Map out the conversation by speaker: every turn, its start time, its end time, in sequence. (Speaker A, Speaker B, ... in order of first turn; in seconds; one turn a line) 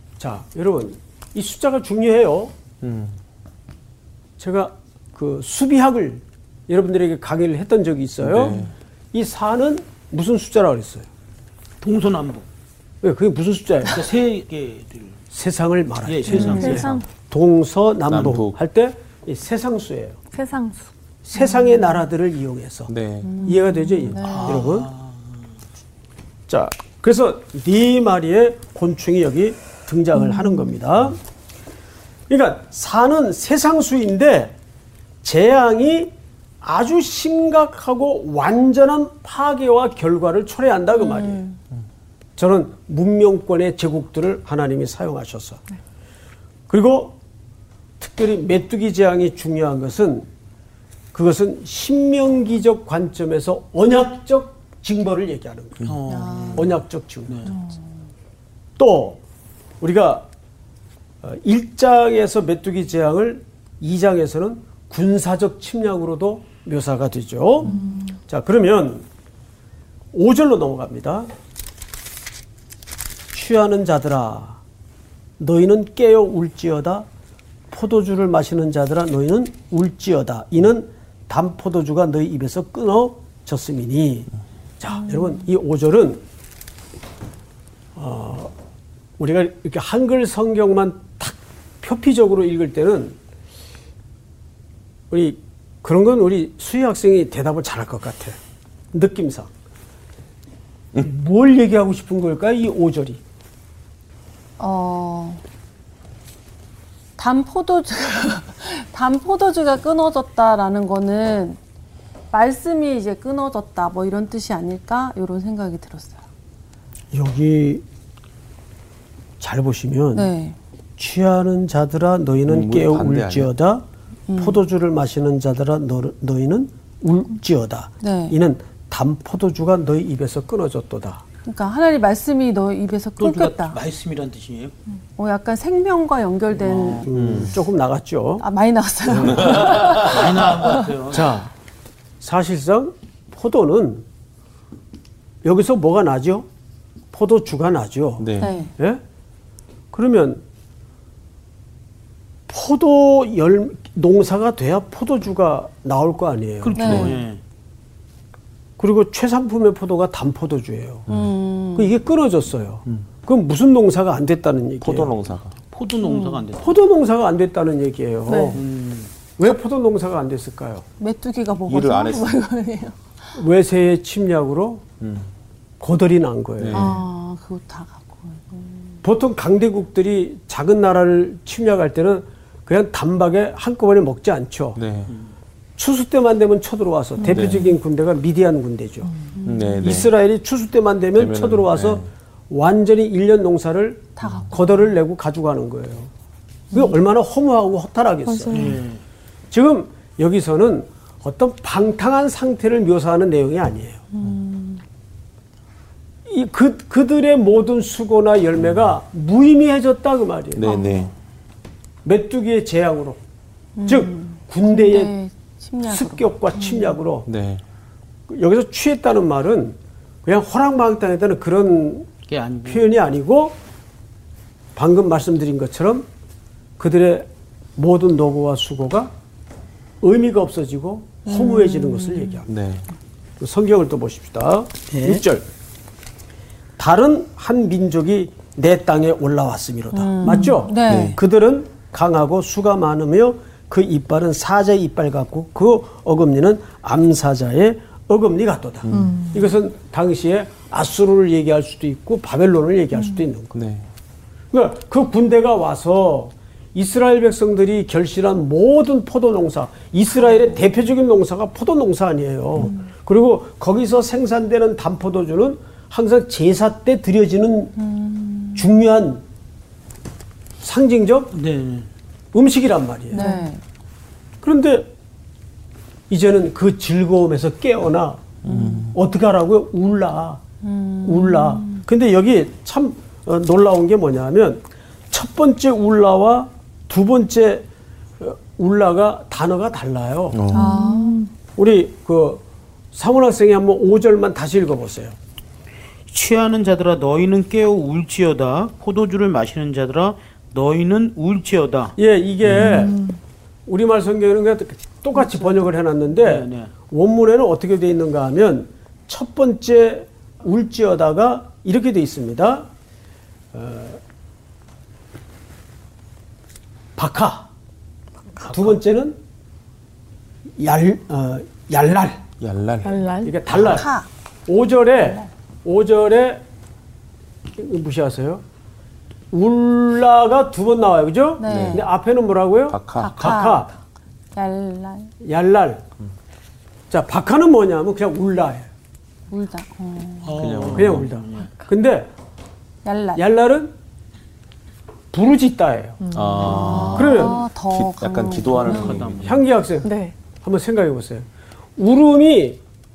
Speaker A: 0.2-2.5
Speaker B: 2.8-3.2
Speaker A: 4.4-8.6
Speaker B: 8.2-8.7
Speaker A: 9.1-11.1
Speaker C: 11.8-12.4
Speaker A: 13.0-14.2
Speaker C: 13.8-15.2
Speaker A: 15.3-20.2
Speaker C: 16.0-17.0
Speaker D: 16.3-16.8
Speaker E: 16.5-17.1
Speaker B: 18.1-18.6
Speaker E: 20.3-20.9
Speaker A: 21.2-24.9
Speaker B: 22.9-23.5
Speaker D: 23.2-24.6
Speaker C: 24.2-25.3
Speaker A: 26.5-31.2
Speaker A: 32.3-34.5
Speaker A: 35.2-41.4
Speaker D: 40.9-41.5
Speaker A: 42.4-45.6
Speaker A: 46.7-47.1
Speaker A: 48.0-50.3
Speaker A: 51.1-55.9
Speaker C: 55.8-57.5
Speaker D: 56.1-56.7
Speaker A: 56.5-57.5
Speaker A: 58.8-59.2
Speaker A: 59.8-60.3
Speaker A: 61.2-69.1
Speaker E: 67.7-68.2
Speaker A: 70.1-71.3
Speaker A: 73.3-74.6
Speaker A: 75.4-77.1
Speaker A: 77.7-86.2
Speaker A: 88.0-88.5
Speaker A: 89.2-93.2
Speaker A: 95.1-98.4
Speaker A: 98.9-99.5
Speaker A: 100.9-103.2
Speaker D: 104.6-105.4
Speaker D: 107.2-111.6
Speaker D: 112.3-116.2
Speaker A: 117.1-117.8
Speaker A: 119.4-120.3
Speaker D: 120.1-120.6
Speaker A: 121.0-123.8
Speaker B: 122.4-123.5
Speaker D: 124.3-124.6
Speaker A: 124.4-131.2
Speaker D: 128.0-128.4
Speaker D: 131.4-133.8
Speaker C: 133.2-134.7
Speaker D: 135.2-137.1
Speaker C: 136.6-137.1
Speaker A: 137.0-138.4
Speaker B: 137.1-137.6
Speaker D: 138.4-140.9
Speaker A: 139.1-140.5
Speaker B: 139.2-140.3
Speaker C: 139.9-141.3
Speaker A: 141.1-141.5
Speaker A: 142.2-144.0
Speaker A: 145.4-146.4
Speaker A: 147.1-149.0
Speaker B: 148.2-148.5
Speaker D: 148.4-148.7
Speaker A: 149.9-150.4
Speaker A: 152.5-157.1
Speaker C: 156.6-157.4
Speaker D: 156.7-157.2
Speaker A: 158.8-161.1
Speaker D: 161.1-161.9
Speaker A: 161.8-165.1
Speaker B: 164.8-165.6
Speaker C: 165.7-166.8
Speaker D: 166.0-166.4
Speaker A: 166.6-168.6
Speaker C: 168.5-169.1
Speaker A: 169.4-170.8
Speaker D: 171.0-172.9
Speaker B: 171.7-172.4
Speaker A: 173.3-174.8
Speaker B: 175.0-175.3
Speaker A: 175.8-176.9
Speaker B: 176.6-177.0
Speaker D: 176.7-179.0
Speaker A: 179.0-184.8
Speaker B: 184.7-185.1
Speaker A: 185.8-189.1
Speaker D: 187.2-187.7
Speaker B: 187.3-187.8
Speaker D: 189.4-189.8
Speaker B: 189.4-190.1
Speaker A: 189.8-196.1
Speaker B: 191.1-192.1
Speaker D: 194.2-194.6
Speaker A: 196.7-198.8
Speaker E: 198.2-198.8
Speaker C: 198.5-199.0
Speaker A: 199.5-204.0
Speaker E: 204.2-204.8
Speaker A: 206.3-210.7
Speaker B: 208.6-208.9
Speaker B: 210.5-211.1
Speaker D: 210.6-211.1
Speaker A: 212.0-213.2
Speaker D: 213.8-216.9
Speaker A: 213.8-215.1
Speaker A: 215.8-217.3
Speaker B: 217.2-217.6
Speaker A: 218.3-222.1
Speaker C: 222.3-222.9
Speaker A: 222.7-223.6
Speaker A: 224.7-226.1
Speaker A: 226.8-229.1
Speaker A: 230.0-232.5
Speaker D: 231.2-232.4
Speaker B: 232.5-232.9
Speaker A: 233.4-235.5
Speaker C: 234.9-235.2
Speaker A: 236.8-253.5
Speaker D: 239.9-241.2
Speaker B: 240.8-241.2
Speaker B: 248.8-249.2
Speaker E: 248.9-249.5
Speaker B: 253.5-253.9
Speaker A: 254.5-267.8
Speaker D: 267.8-268.7
Speaker A: 268.5-269.2
Speaker A: 270.6-271.3
Speaker C: 271.3-271.9
Speaker A: 272.3-273.3
Speaker D: 273.1-273.6
Speaker A: 274.4-274.9
Speaker A: 276.1-280.4
Speaker B: 278.5-278.9
Speaker D: 280.6-281.8
Speaker A: 281.0-287.7
Speaker A: 288.2-290.5
Speaker B: 290.3-290.7
Speaker E: 290.5-291.3
Speaker D: 290.5-291.2
Speaker A: 291.5-295.1
Speaker C: 296.1-301.9
Speaker A: 302.0-303.0
Speaker B: 302.4-302.7
Speaker E: 302.6-303.2
Speaker A: 303.7-312.7
Speaker C: 306.1-306.7
Speaker A: 313.5-314.0
Speaker A: 316.9-317.5
Speaker A: 318.4-319.2
Speaker A: 320.6-322.2
Speaker B: 322.4-323.0
Speaker E: 322.8-323.4
Speaker A: 323.2-323.9
Speaker D: 323.5-324.1
Speaker A: 324.5-326.4
Speaker A: 327.6-328.4
Speaker A: 329.3-333.7
Speaker D: 331.4-331.9
Speaker B: 331.4-331.9
Speaker B: 332.7-333.4
Speaker D: 332.9-333.7
Speaker D: 334.3-335.1
Speaker A: 335.2-335.8
Speaker A: 336.9-338.7
Speaker D: 339.3-340.4
Speaker C: 340.2-341.5
Speaker B: 340.3-341.1
Speaker A: 340.7-342.1
Speaker D: 342.8-343.2
Speaker A: 343.1-343.7
Speaker A: 345.1-346.0
Speaker E: 346.0-346.7
Speaker B: 346.1-349.4
Speaker D: 346.4-349.1
Speaker A: 346.9-347.4
Speaker C: 348.6-349.5
Speaker A: 349.1-351.2
Speaker E: 349.8-350.1
Speaker A: 351.8-352.6